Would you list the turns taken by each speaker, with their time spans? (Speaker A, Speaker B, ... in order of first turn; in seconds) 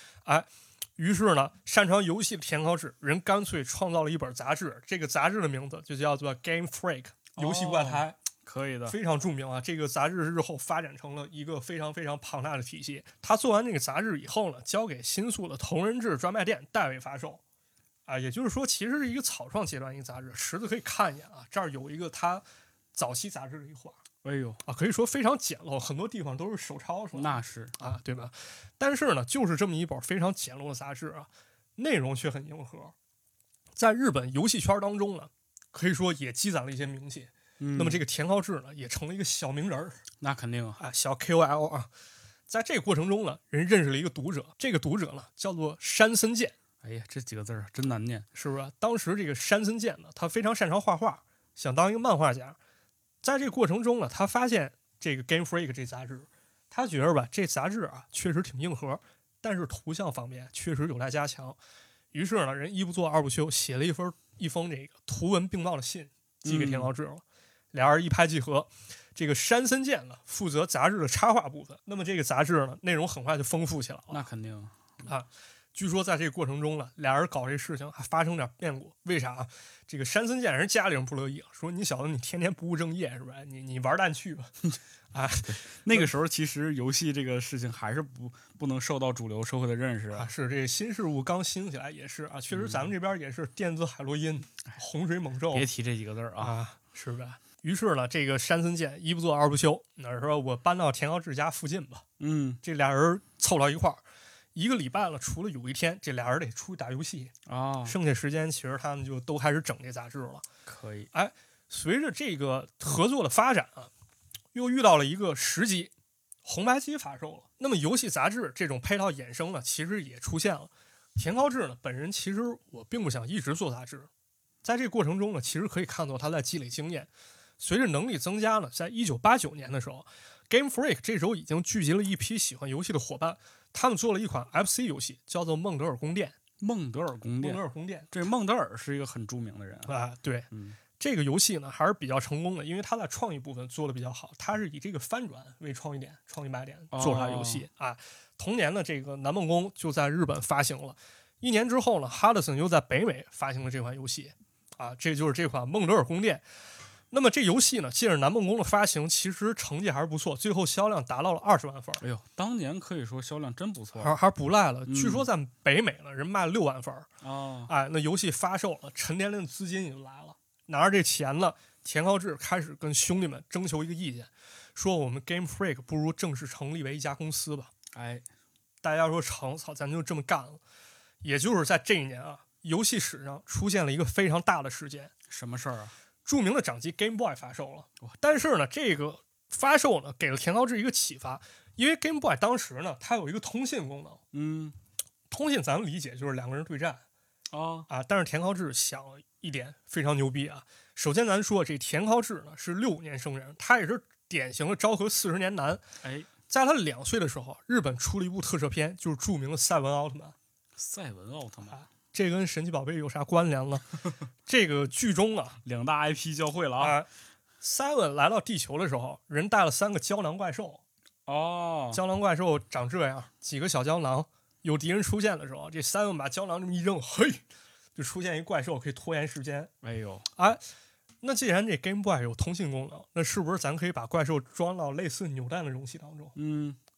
Speaker A: 0.2-8.2, 8.9-17.4, 18.1-22.4, 22.9-24.0, 24.6-32.9, 33.8-40.0, 40.8-41.9, 42.5-46.5, 48.4-52.6, 53.2-61.6, 62.1-74.2, 75.0-84.5, 85.1-86.1, 90.1-95.7, 96.4-102.0, 102.6-104.0, 104.5-107.3, 107.8-110.4, 111.1-113.9, 114.5-115.9, 116.4-124.1, 124.6-136.4, 137.4-138.1, 139.9-156.4, 157.1-162.0, 164.0-167.1, 167.7-177.7, 178.8-180.6, 181.2-185.1, 186.2-194.2, 195.3-197.0, 197.9-205.8, 206.5-210.4, 211.7-213.9, 214.4-215.6, 216.8-217.1, 217.6-220.8, 221.9-227.4, 227.9-229.7, 230.4-230.6, 231.2-236.3
Speaker B: 7.4-9.0, 24.2-24.6, 27.1-27.7, 37.6-38.0, 40.2-40.8, 46.8-48.2, 66.4-66.9, 74.1-74.8, 85.5-90.3, 92.5-92.9, 95.5-96.5, 102.2-102.6, 107.5-108.0, 110.7-111.1, 136.6-139.9, 140.5-140.8, 146.9-147.7, 162.0-164.1, 164.9-165.3, 167.2-167.7, 177.9-178.2, 185.3-185.9, 194.3-194.8, 197.5-197.9, 206.0-206.3, 210.8-211.8, 215.6-217.0, 221.2-222.0, 229.8-230.2, 236.4-236.8